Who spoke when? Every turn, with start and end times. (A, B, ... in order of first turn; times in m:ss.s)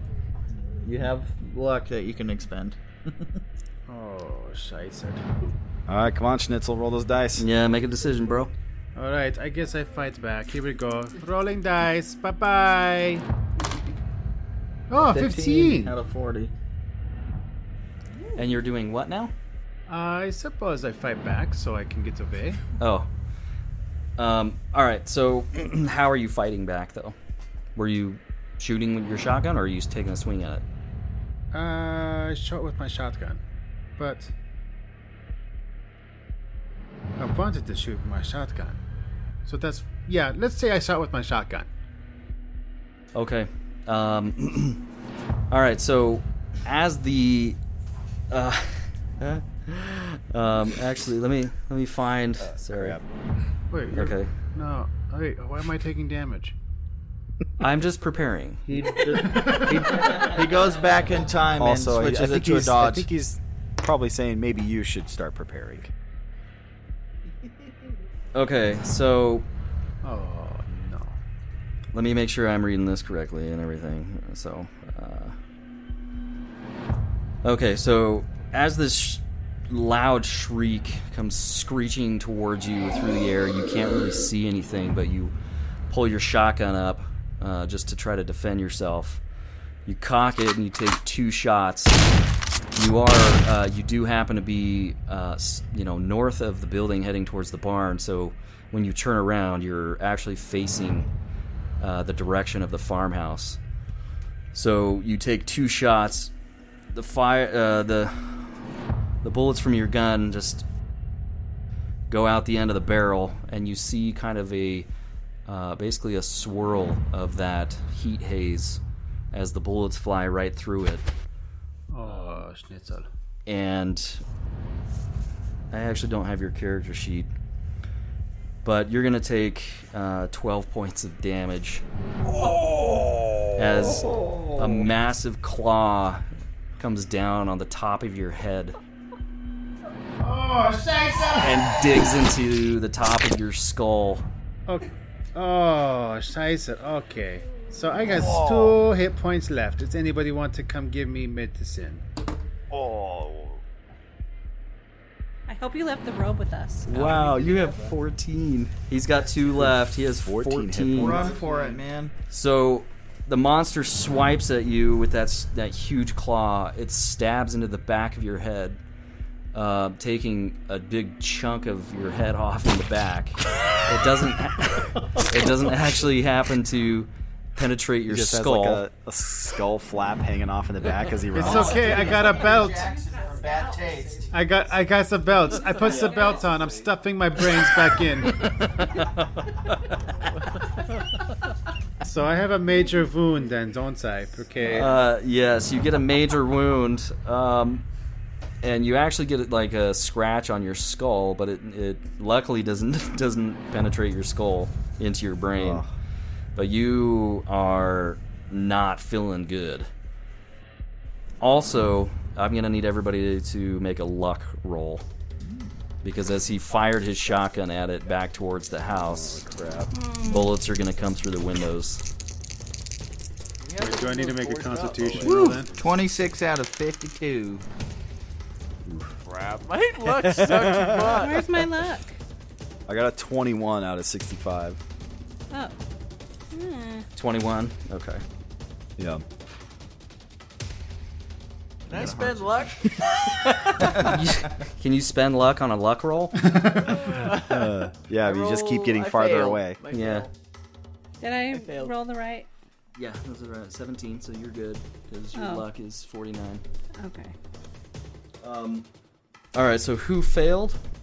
0:00.6-0:03.4 A
0:03.9-0:05.2 B
0:05.9-0:07.5 C
0:07.4-0:08.5 D
0:08.9-0:13.2 B
0:14.9-0:16.0 B
0:14.9-0:16.5 A
0:18.3-0:19.3 D
0:19.9-0:22.6 B
0:22.8-0:23.1 D
0:24.2-0:27.2 D
0:27.8-0:30.6 D
0:31.5-0:33.4 B
0:34.0-0:34.3 B
0:37.2-0:38.8 B
0:39.4-0:41.7 B
0:43.1-0:44.8 D
0:45.5-0:47.6 D
0:48.3-0:53.0 D
0:52.4-0:53.0 C
0:53.7-0:56.5 B
0:53.9-0:54.3 D
0:57.6-0:58.6 D
0:58.7-1:03.1 A
1:01.6-1:05.9 C
1:08.3-1:09.4 D
1:10.0-1:11.2 B
1:11.9-1:15.3 D
1:17.4-1:25.3 D
1:25.9-1:29.2 D
1:29.8-1:32.0 D
1:32.7-1:41.1 D
1:41.8-1:43.6 D
1:44.5-1:46.3 D
1:46.9-1:48.6 D
1:49.2-1:50.6 D
1:52.1-1:54.9 D
1:55.5-1:58.8 D
1:59.3-2:01.1 D
2:01.9-2:03.1 B
2:02.0-2:02.4 E
2:03.5-2:04.2 D
2:05.7-2:07.3 D
2:08.6-2:11.8 D
2:12.2-2:14.8 C
2:13.6-2:16.2 D
2:16.8-2:18.8 D
2:20.2-2:22.0 B
2:21.4-2:24.2 D
2:24.7-2:32.0 B
2:28.1-2:28.8 C
2:32.7-2:33.6 C
2:35.5-2:37.8 F
2:36.8-2:41.2 D
2:39.5-2:41.4 C
2:40.9-2:42.1 A
2:42.3-2:48.8 D
2:49.5-2:58.8 D
2:58.1-3:02.0 C
3:01.3-3:02.9 B
3:01.4-3:04.3 A
3:04.3-3:08.5 B
3:05.9-3:06.1 D
3:05.9-3:06.6 E
3:12.0-3:15.0 B
3:14.6-3:17.8 D
3:18.6-3:25.8 D
3:25.6-3:25.9 C
3:26.6-3:29.9 D
3:31.4-3:35.0 D
3:35.4-3:35.8 A
3:36.0-3:39.4 D
3:38.8-3:39.9 C
3:39.9-3:40.5 F
3:40.2-3:42.0 D
3:43.6-3:45.9 E
3:43.8-3:45.7 B
3:45.1-3:45.5 C
3:45.2-3:47.6 A
3:48.8-3:49.1 C
3:49.2-3:51.6 E
3:50.0-3:51.2 C
3:51.1-3:52.2 F
3:52.9-3:54.8 C
3:55.5-3:55.8 F
3:56.5-3:57.0 F
3:57.1-3:58.2 D
3:59.0-3:59.2 C
4:01.9-4:04.0 E
4:01.9-4:02.9 A
4:03.8-4:06.5 D
4:06.7-4:10.3 E
4:07.4-4:09.8 C
4:09.9-4:10.3 D
4:11.2-4:12.5 F
4:11.5-4:12.0 E
4:13.0-4:16.6 D
4:15.3-4:15.6 F
4:17.0-4:17.3 F
4:18.4-4:18.8 D
4:19.5-4:20.8 D